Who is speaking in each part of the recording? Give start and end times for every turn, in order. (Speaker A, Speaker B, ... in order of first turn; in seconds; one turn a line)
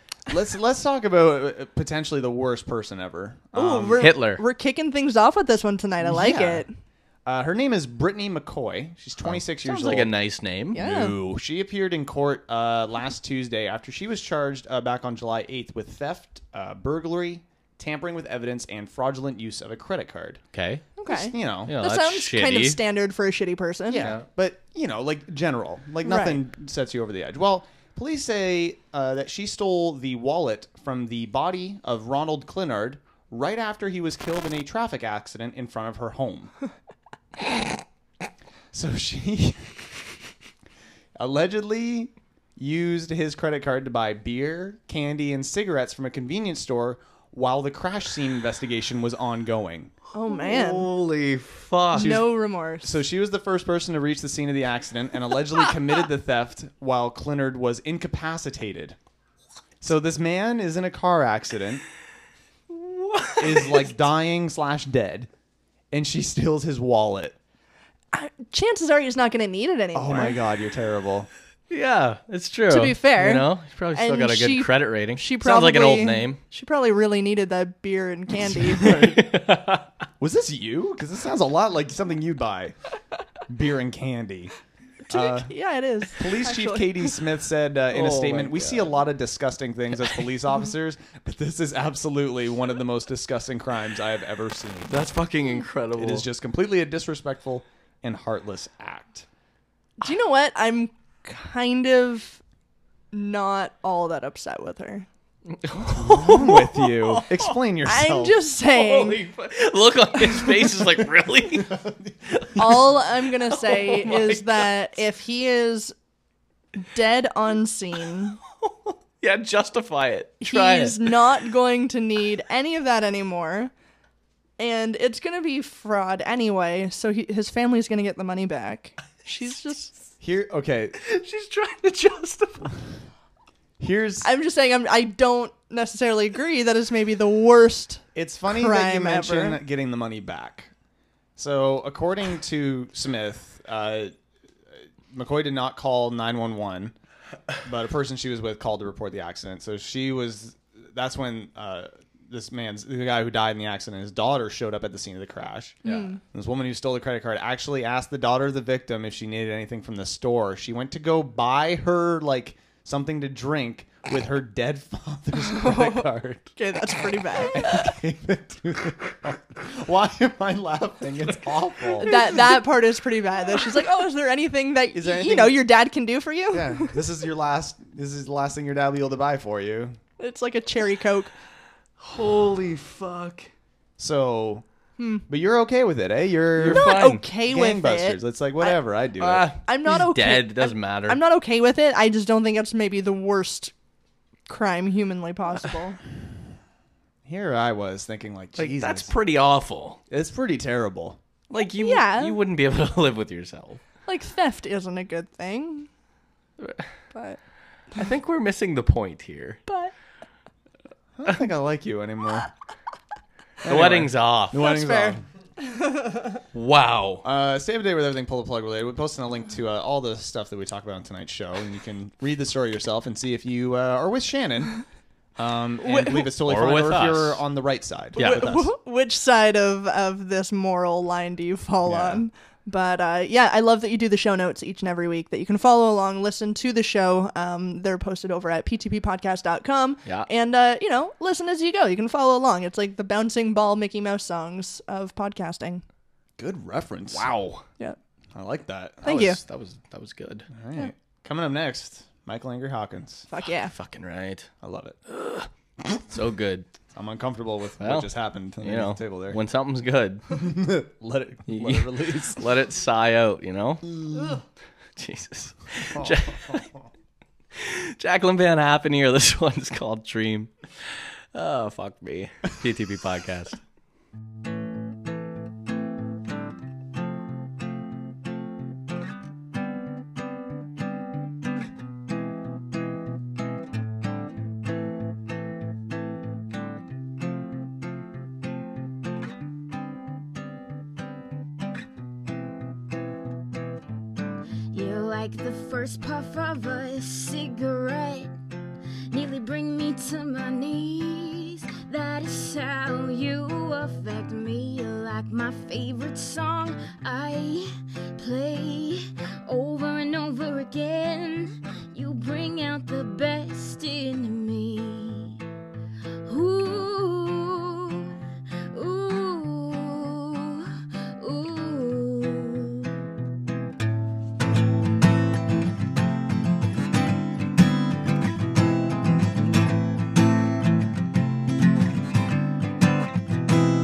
Speaker A: 0.3-4.1
Speaker B: 3.5-6.7
Speaker C: 4.0-4.4
Speaker A: 6.0-6.7
Speaker A: 7.2-10.1
Speaker B: 9.6-10.1
Speaker C: 9.8-10.8
Speaker B: 10.7-11.2
Speaker A: 10.7-20.4
Speaker C: 20.5-20.8
Speaker B: 20.9-24.1
Speaker A: 21.1-21.8
Speaker C: 21.7-22.8
Speaker A: 23.9-36.5
Speaker B: 26.0-26.4
Speaker A: 38.7-39.7
Speaker A: 41.1-49.9
Speaker B: 50.1-50.9
Speaker C: 50.4-52.2
Speaker B: 51.9-52.9
Speaker A: 51.9-59.0
Speaker A: 59.8-61.8
Speaker C: 62.7-63.9
Speaker A: 63.4-65.3
Speaker A: 65.9-67.3
Speaker B: 68.1-70.4
Speaker A: 69.9-71.3
Speaker C: 71.7-76.4
Speaker B: 72.7-79.2
Speaker C: 78.8-79.8
Speaker A: 80.2-82.7
Speaker A: 83.5-84.5
Speaker A: 85.1-85.5
Speaker B: 85.1-87.0
Speaker A: 86.2-95.1
Speaker C: 87.9-89.0
Speaker C: 94.9-96.2
Speaker A: 95.9-99.2
Speaker B: 100.0-102.4
Speaker B: 103.1-105.1
Speaker C: 105.6-107.5
Speaker A: 105.9-108.4
Speaker B: 107.8-109.2
Speaker C: 108.7-111.7
Speaker A: 111.6-112.6
Speaker B: 112.5-115.9
Speaker C: 113.6-114.7
Speaker B: 116.9-118.4
Speaker C: 118.6-121.1
Speaker B: 120.4-123.7
Speaker B: 124.6-129.9
Speaker A: 130.2-130.9
Speaker C: 131.0-132.7
Speaker A: 133.8-134.3
Speaker B: 134.2-139.6
Speaker A: 138.1-140.7
Speaker A: 141.3-144.1
Speaker A: 145.1-146.9
Speaker A: 147.6-172.4
Speaker B: 155.8-156.2
Speaker B: 165.4-167.9
Speaker B: 172.0-177.0
Speaker A: 174.9-175.6
Speaker A: 176.5-180.0
Speaker B: 180.2-181.3
Speaker C: 182.0-183.5
Speaker A: 184.0-184.6
Speaker B: 185.0-185.2
Speaker A: 185.3-189.5
Speaker C: 186.6-187.2
Speaker B: 186.6-188.8
Speaker C: 189.2-191.2
Speaker B: 189.6-193.7
Speaker B: 194.5-196.0
Speaker A: 197.2-199.1
Speaker C: 198.6-200.0
Speaker A: 200.1-201.2
Speaker C: 201.5-203.8
Speaker B: 201.7-202.4
Speaker B: 204.1-205.9
Speaker B: 207.1-207.4
Speaker C: 207.9-209.6
Speaker B: 209.7-209.9
Speaker A: 211.2-212.5
Speaker A: 213.6-215.2
Speaker C: 213.7-214.6
Speaker B: 214.5-216.4
Speaker C: 216.5-217.2
Speaker A: 217.2-224.8
Speaker A: 225.4-228.7
Speaker B: 225.8-226.3
Speaker C: 226.4-227.4
Speaker C: 228.2-228.4
Speaker B: 228.2-245.8
Speaker A: 231.8-232.2
Speaker A: 246.4-247.3
Speaker C: 247.1-247.6
Speaker A: 248.3-249.2
Speaker B: 249.0-249.4
Speaker C: 249.0-250.5
Speaker A: 250.5-253.3
Speaker B: 253.3-253.7
Speaker C: 253.6-254.5
Speaker A: 254.6-255.0
Speaker C: 255.1-256.7
Speaker A: 256.9-259.4
Speaker C: 257.8-258.1
Speaker C: 258.6-260.2
Speaker A: 260.3-262.4
Speaker C: 261.5-263.8
Speaker A: 264.0-264.4
Speaker C: 265.0-266.6
Speaker C: 267.6-270.5
Speaker C: 271.3-273.6
Speaker D: 294.7-298.3
Speaker D: 299.1-315.4
Speaker D: 316.2-318.1
Speaker D: 318.7-322.9